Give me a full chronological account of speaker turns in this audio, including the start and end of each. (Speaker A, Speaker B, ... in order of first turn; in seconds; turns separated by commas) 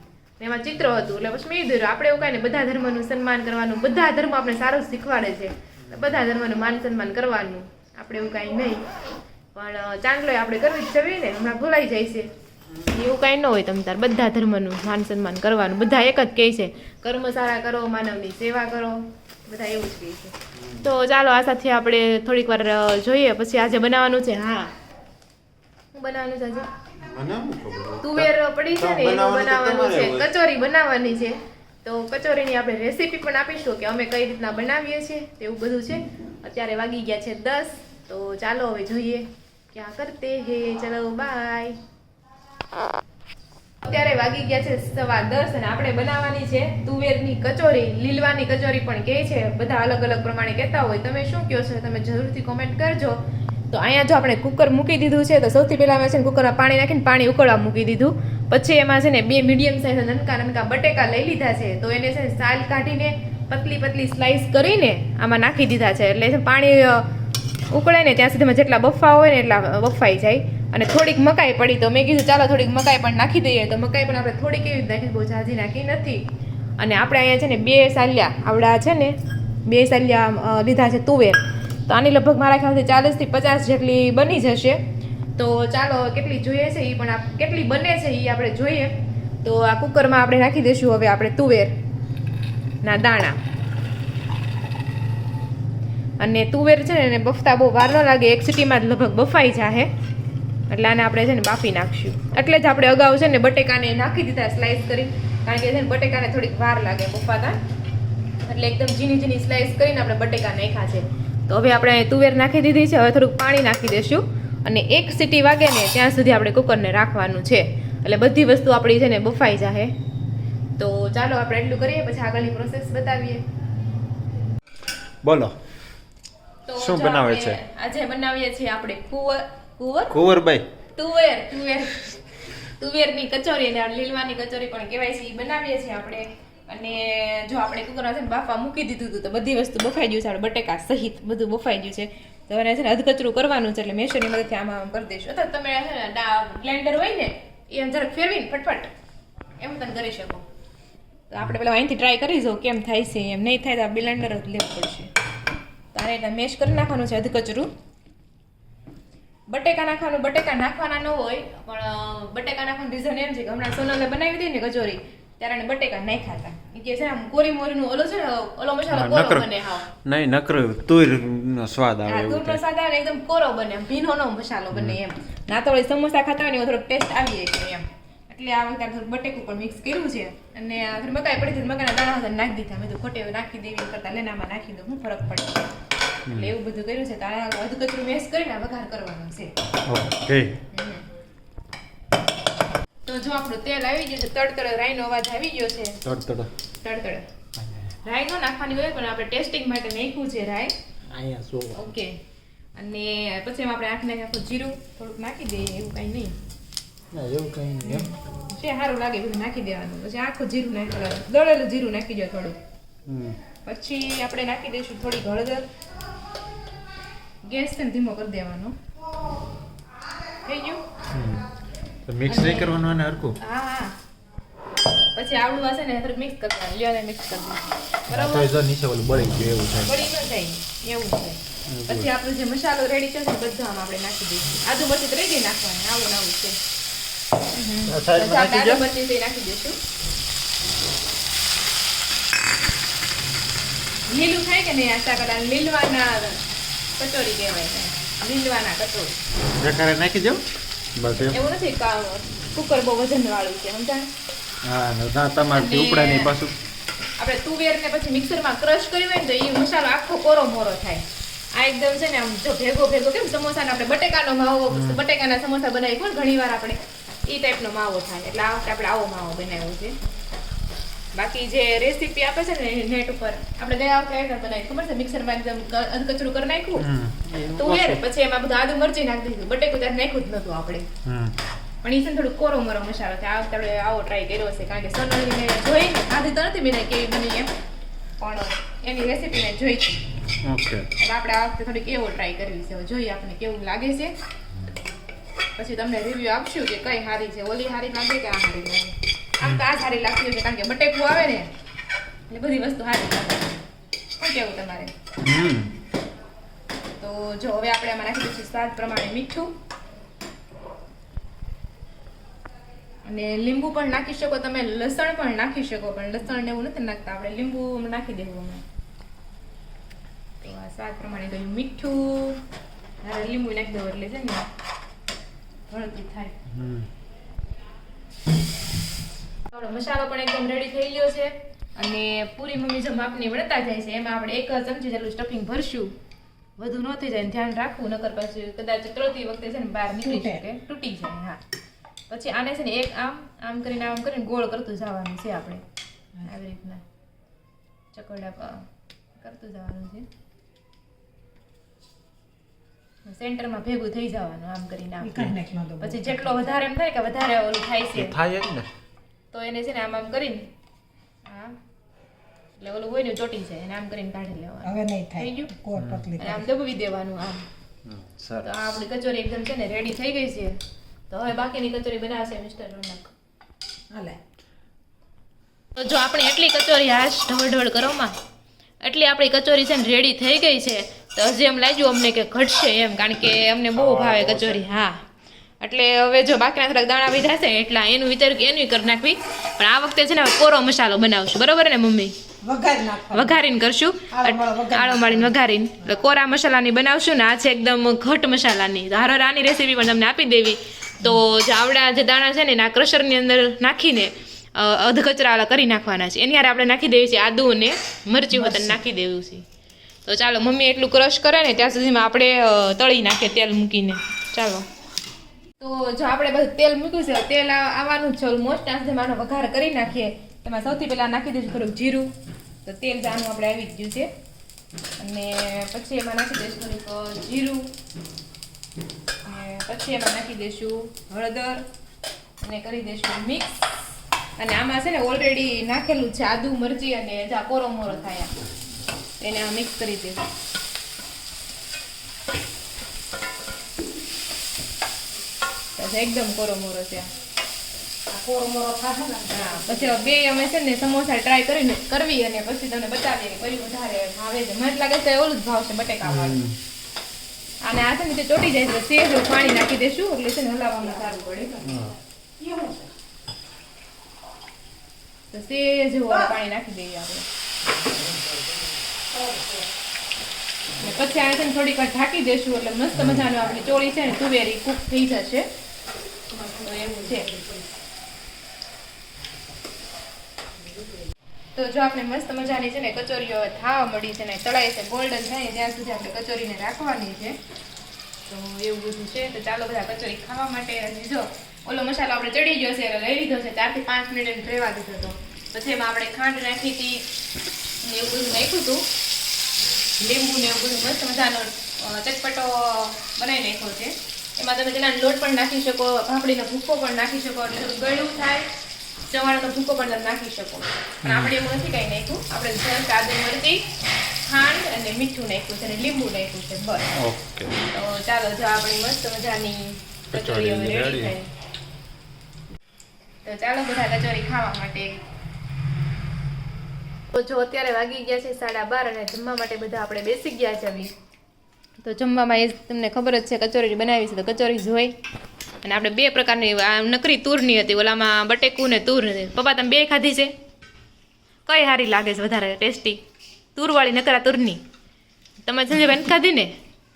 Speaker A: 0.4-8.8, Speaker B: 5.8-6.2, Speaker A: 9.6-12.3, Speaker B: 12.7-13.0, Speaker A: 12.9-24.7, Speaker B: 20.5-20.9, Speaker A: 25.9-26.7, Speaker B: 27.0-30.3, Speaker A: 28.0-41.8, Speaker A: 43.8-53.2, Speaker A: 53.7-67.1, Speaker A: 67.7-76.2, Speaker A: 76.8-79.2, Speaker A: 79.7-84.8, Speaker A: 85.4-91.8, Speaker A: 92.8-93.4, Speaker A: 96.2-99.9, Speaker A: 100.7-107.6, Speaker A: 108.4-119.9, Speaker A: 120.8-123.4, Speaker B: 125.2-125.5, Speaker A: 126.7-130.2, Speaker B: 126.8-127.6, Speaker B: 130.1-130.7, Speaker A: 131.0-132.2, Speaker A: 132.8-148.9, Speaker A: 149.6-150.5, Speaker A: 151.3-155.1, Speaker A: 155.9-157.7, Speaker A: 159.5-169.9, Speaker B: 168.9-172.6, Speaker A: 172.1-185.7, Speaker B: 174.7-175.0, Speaker B: 186.3-186.5, Speaker A: 186.3-189.5, Speaker B: 189.8-190.6, Speaker A: 190.7-191.1, Speaker A: 193.1-196.0, Speaker B: 196.0-196.5, Speaker A: 196.8-197.3, Speaker A: 198.1-200.7, Speaker B: 201.1-201.9, Speaker A: 201.8-202.2, Speaker A: 202.8-206.4, Speaker B: 207.1-208.1, Speaker A: 207.8-212.6, Speaker B: 213.1-213.4, Speaker A: 213.7-215.7, Speaker A: 217.4-218.8, Speaker A: 220.5-220.8, Speaker B: 221.1-221.5, Speaker B: 222.1-223.4, Speaker A: 222.3-222.8, Speaker A: 223.4-223.9, Speaker A: 225.2-228.5, Speaker B: 228.1-230.0, Speaker A: 229.8-236.6, Speaker B: 231.7-232.1, Speaker A: 237.5-239.8, Speaker B: 237.9-238.8, Speaker A: 244.1-246.4, Speaker A: 247.0-249.2, Speaker B: 249.6-250.4, Speaker B: 250.9-251.4, Speaker A: 251.3-254.1, Speaker B: 254.6-256.6, Speaker A: 255.5-256.3, Speaker A: 257.2-270.0, Speaker B: 264.7-265.0, Speaker A: 271.1-276.9, Speaker B: 276.8-278.0, Speaker A: 277.6-280.9, Speaker B: 281.1-281.4, Speaker A: 281.8-287.5, Speaker A: 288.2-290.0, Speaker B: 290.4-290.9, Speaker A: 291.0-294.1, Speaker A: 295.6-301.5, Speaker A: 302.3-303.6, Speaker A: 304.2-304.9, Speaker B: 305.2-305.7, Speaker A: 307.0-309.5, Speaker A: 313.1-318.6, Speaker A: 320.4-322.4, Speaker A: 323.0-324.5, Speaker A: 325.7-326.4, Speaker B: 326.5-326.9, Speaker A: 329.5-335.9, Speaker A: 336.6-341.4, Speaker C: 340.0-340.4, Speaker A: 342.1-345.6, Speaker A: 346.2-346.8, Speaker A: 347.9-348.7, Speaker A: 349.2-350.1, Speaker A: 353.1-355.2, Speaker C: 355.0-356.4, Speaker A: 355.8-358.2, Speaker B: 357.9-358.7, Speaker A: 359.3-360.5, Speaker A: 361.3-361.6, Speaker A: 362.6-365.5, Speaker C: 364.6-366.4, Speaker B: 365.8-366.1, Speaker A: 366.2-367.4, Speaker B: 367.9-368.8, Speaker A: 368.4-370.6, Speaker A: 371.1-373.1, Speaker C: 373.9-374.2, Speaker A: 375.8-378.1, Speaker A: 378.8-385.0, Speaker B: 383.8-384.6, Speaker A: 385.6-392.1, Speaker C: 392.4-393.4, Speaker A: 393.1-409.4, Speaker C: 394.1-395.4, Speaker C: 408.3-408.8, Speaker A: 410.1-414.7, Speaker A: 415.6-422.1, Speaker A: 422.6-424.1, Speaker A: 425.0-427.7, Speaker A: 429.3-431.6, Speaker A: 432.4-433.7, Speaker A: 434.4-438.3, Speaker A: 439.2-440.2, Speaker A: 445.8-447.1, Speaker C: 448.1-450.1, Speaker A: 449.3-456.4, Speaker B: 456.0-456.6, Speaker A: 457.6-461.6, Speaker C: 460.8-462.9, Speaker B: 461.6-461.9, Speaker A: 465.3-467.3, Speaker C: 469.1-469.7, Speaker A: 470.8-475.5, Speaker B: 472.9-473.3, Speaker C: 476.3-477.7, Speaker A: 476.6-477.3, Speaker A: 481.6-487.4, Speaker A: 488.3-497.1, Speaker A: 497.8-498.8, Speaker A: 500.0-508.5, Speaker A: 509.1-513.7, Speaker B: 511.0-511.3, Speaker A: 514.2-516.9, Speaker B: 517.0-517.6, Speaker A: 517.7-521.3, Speaker B: 520.1-521.1, Speaker A: 523.2-525.0, Speaker A: 527.1-530.9, Speaker A: 531.8-534.9, Speaker A: 535.6-540.3, Speaker A: 541.5-543.0, Speaker A: 543.6-544.6, Speaker A: 545.5-546.5